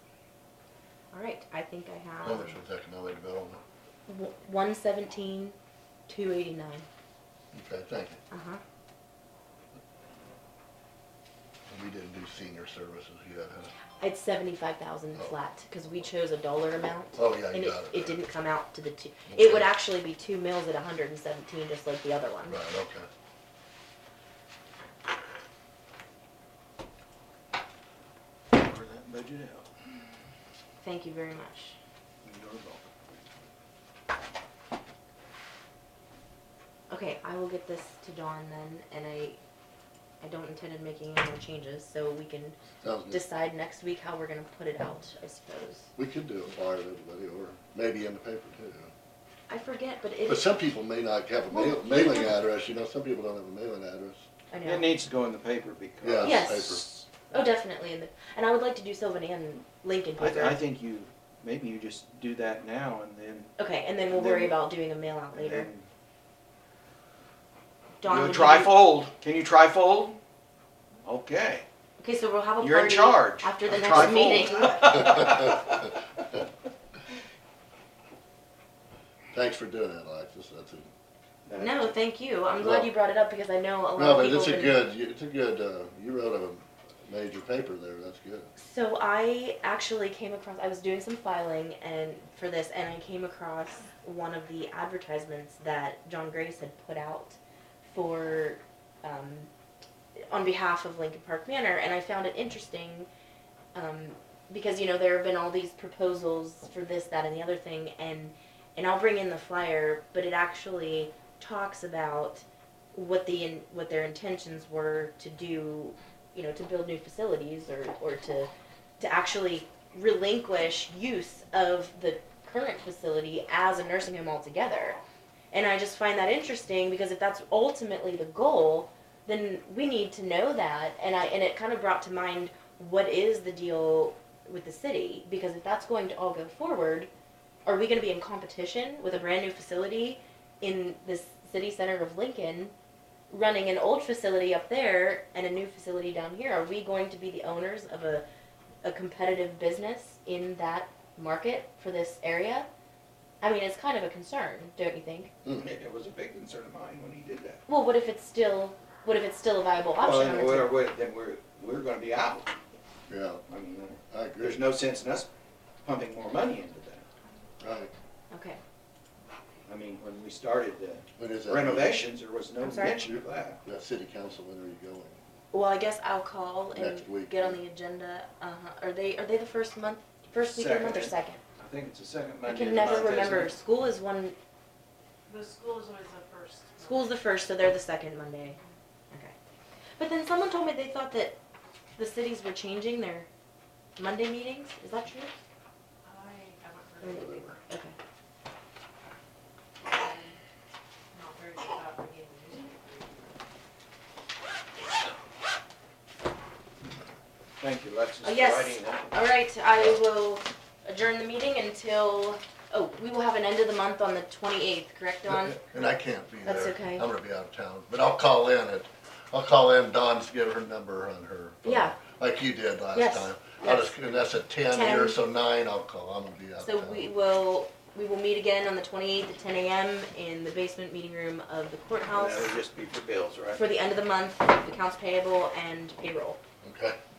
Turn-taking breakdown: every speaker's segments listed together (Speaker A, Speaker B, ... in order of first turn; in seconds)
Speaker A: 1.1-2.6, 4.1-5.5, 6.1-6.8, 8.3-8.6, 14.0-22.6, 30.8-31.8, 36.9-39.4, 40.2-45.9, 49.5-50.5, 51.5-52.3, 54.5-54.9, 56.2-60.6, 63.6-65.7, 68.0-68.8, 72.0-75.3, 81.5-84.8, 88.6-99.5, 100.3-103.1, 103.7-125.0, 125.5-137.1, 137.7-142.7, 143.3-148.2, 148.8-152.7, 153.4-155.3, 157.7-160.7, 168.3-168.6, 172.6-173.2, 175.5-181.4, 182.4-184.3, 186.8-188.6, 190.0-191.4, 192.0-193.3, 193.9-195.3, 197.0-197.9, 208.2-215.9, 216.4-217.1, 221.6-222.0, 222.9-224.1, 224.7-225.2, 226.6-232.5, 233.5-236.4
Speaker B: 2.2-3.6, 7.5-8.2, 11.7-13.7, 17.2-18.2, 19.3-19.7, 22.5-23.1, 42.8-43.2, 46.0-48.9, 50.3-54.2, 56.0-56.8, 74.8-75.8, 79.3-80.9, 82.6-82.9, 84.0-88.5, 163.1-163.4, 164.1-164.6, 167.6-167.9, 171.2-172.1, 173.6-175.2, 176.7-177.6, 215.5-227.1, 236.6-237.0
Speaker C: 28.5-29.7, 32.2-32.9, 54.6-57.0, 60.2-63.5, 64.1-64.6, 65.3-65.8, 68.0-70.2, 71.0-71.6, 72.6-76.0, 81.5-81.9, 155.5-157.6, 160.0-162.5, 163.5-165.3, 165.8-167.1, 169.7-173.6, 180.5-183.5, 207.6-209.1, 232.1-233.6
Speaker D: 185.3-187.1, 196.0-197.6, 199.8-200.4, 201.1-203.3